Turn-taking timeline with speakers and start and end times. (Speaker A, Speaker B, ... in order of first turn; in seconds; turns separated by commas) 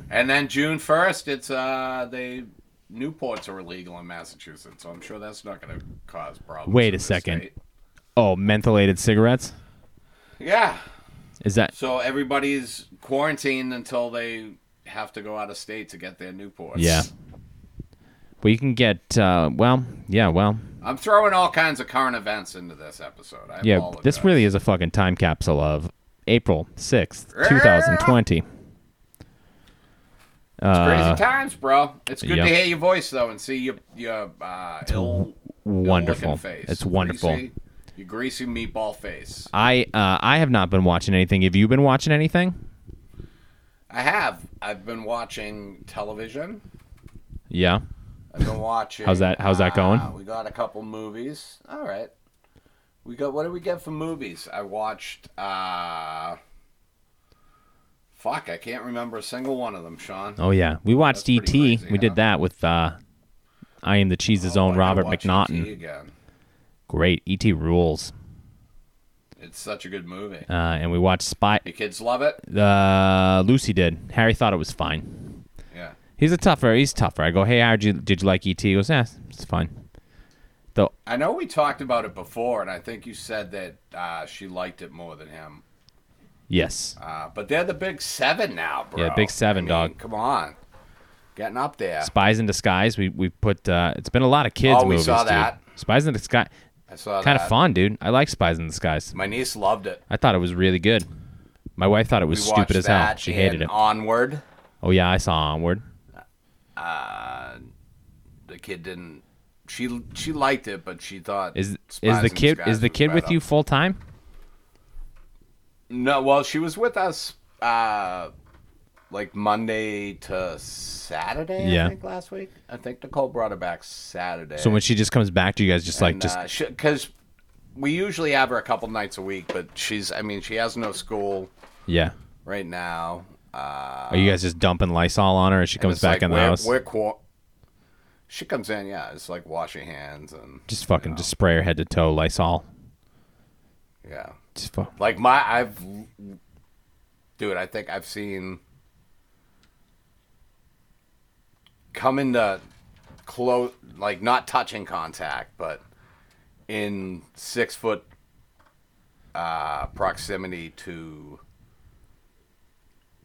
Speaker A: 0.1-7.5, Speaker B: 6.7-7.4, Speaker B: 8.2-9.6, Speaker A: 10.4-10.8, Speaker B: 11.4-11.7, Speaker A: 11.7-17.1, Speaker B: 16.8-17.1, Speaker B: 18.4-20.7, Speaker A: 20.8-24.4, Speaker B: 23.6-28.4, Speaker A: 27.3-28.2, Speaker B: 30.6-31.2, Speaker A: 30.7-39.5, Speaker B: 32.2-32.5, Speaker B: 34.9-37.4, Speaker B: 39.5-42.6, Speaker A: 43.9-46.6, Speaker B: 47.5-47.8, Speaker A: 48.3-52.1, Speaker B: 49.0-50.1, Speaker A: 53.0-56.4, Speaker A: 58.1-60.4, Speaker B: 60.4-63.0, Speaker A: 61.1-62.2, Speaker B: 63.8-65.7, Speaker A: 64.4-66.1, Speaker B: 66.9-68.1, Speaker A: 69.4-70.5, Speaker B: 70.5-71.6, Speaker A: 71.6-72.4, Speaker B: 72.4-75.4, Speaker A: 75.7-76.0, Speaker B: 76.2-79.7, Speaker A: 81.0-85.6, Speaker B: 86.5-87.0, Speaker A: 87.0-90.5, Speaker B: 89.0-89.9, Speaker A: 91.3-92.1, Speaker B: 92.0-96.5, Speaker A: 94.6-95.6, Speaker A: 96.9-97.5, Speaker B: 97.2-99.1, Speaker A: 99.1-100.0, Speaker B: 100.1-101.1, Speaker B: 101.8-103.7, Speaker A: 102.3-104.4, Speaker B: 104.8-105.8, Speaker A: 106.8-107.6, Speaker A: 108.5-113.4, Speaker B: 111.5-114.0, Speaker A: 115.9-118.3, Speaker A: 119.1-124.8, Speaker B: 121.6-121.9, Speaker B: 124.6-126.4, Speaker A: 125.9-127.1, Speaker A: 127.8-131.5, Speaker B: 131.9-132.1, Speaker A: 132.4-134.4, Speaker B: 134.1-136.7, Speaker A: 135.8-137.2, Speaker A: 138.3-141.3, Speaker B: 140.7-142.7, Speaker A: 144.0-144.3, Speaker B: 144.6-144.9, Speaker A: 145.0-146.4, Speaker A: 147.4-148.6, Speaker A: 151.9-152.6, Speaker A: 153.2-155.8, Speaker A: 156.7-158.1, Speaker A: 159.3-161.4